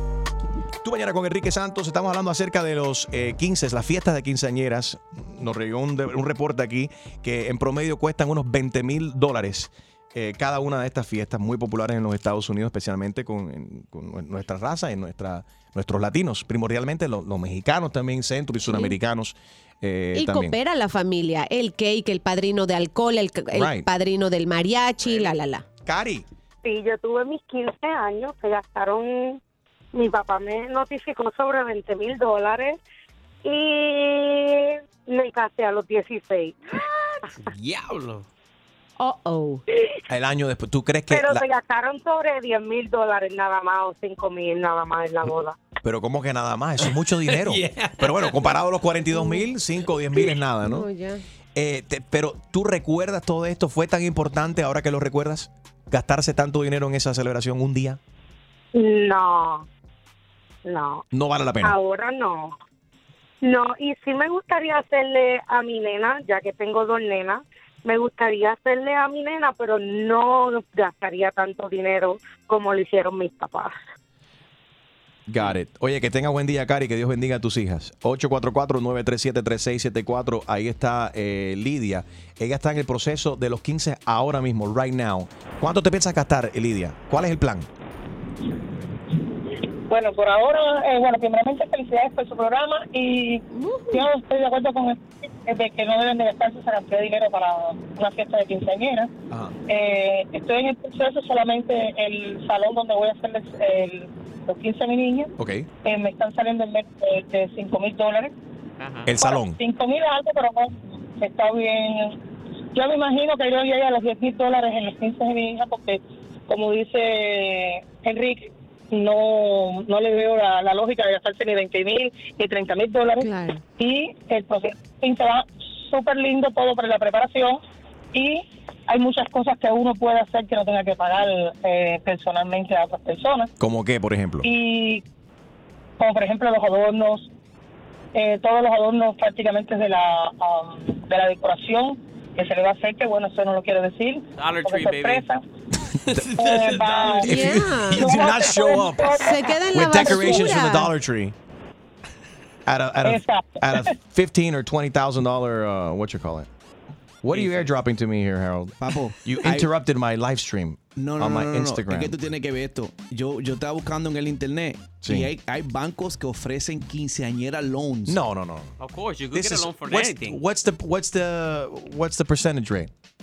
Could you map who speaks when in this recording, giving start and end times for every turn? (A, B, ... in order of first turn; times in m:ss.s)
0:00.8-0:20.6 A
0:18.7-0:19.0 B
0:20.2-0:25.6 B
0:23.5-0:23.9 A
0:25.8-0:26.3 A
0:26.6-0:29.4 C
0:29.9-0:32.8 C
0:33.4-0:36.6 C
0:37.4-0:38.3 D
0:39.0-0:39.6 B
0:40.1-0:41.4 A
0:41.1-0:45.6 C
0:45.8-0:50.9 A
0:47.2-0:48.4 D
0:49.1-0:49.5 B
0:50.6-0:51.2 B
0:51.6-0:58.0 A
0:58.7-0:59.7 C
1:00.6-1:01.0 C
1:01.1-1:01.8 A
1:01.6-1:02.5 C
1:03.4-1:13.8 C
1:15.3-1:27.7 A
1:29.9-1:39.1 E
1:33.5-1:34.1 B
1:39.7-1:45.3 E
1:45.4-1:45.7 A
1:45.8-1:48.3 E
1:48.8-1:49.2 F
1:49.1-1:49.6 A
1:49.2-1:52.2 E
1:52.8-2:07.6 E
2:03.2-2:03.6 B
2:08.1-2:13.5 E
2:13.6-2:14.5 A
2:14.4-2:15.0 E
2:16.0-2:17.3 E
2:18.2-2:25.4 E
2:24.4-2:25.3 F
2:26.1-2:27.5 D
2:26.4-2:27.4 E
2:27.2-2:28.2 B
2:27.3-2:29.2 A
2:27.9-2:29.5 E
2:29.2-2:30.9 B
2:29.7-2:31.4 A
2:30.1-2:30.4 E
2:32.7-2:36.5 A
2:33.0-2:33.9 E
2:37.2-2:42.2 A
2:37.4-2:37.7 D
2:38.8-2:39.7 G
2:41.0-2:48.2 G
2:45.0-2:45.3 A
2:48.1-2:48.7 A
2:48.8-2:50.4 F
2:49.3-2:52.9 A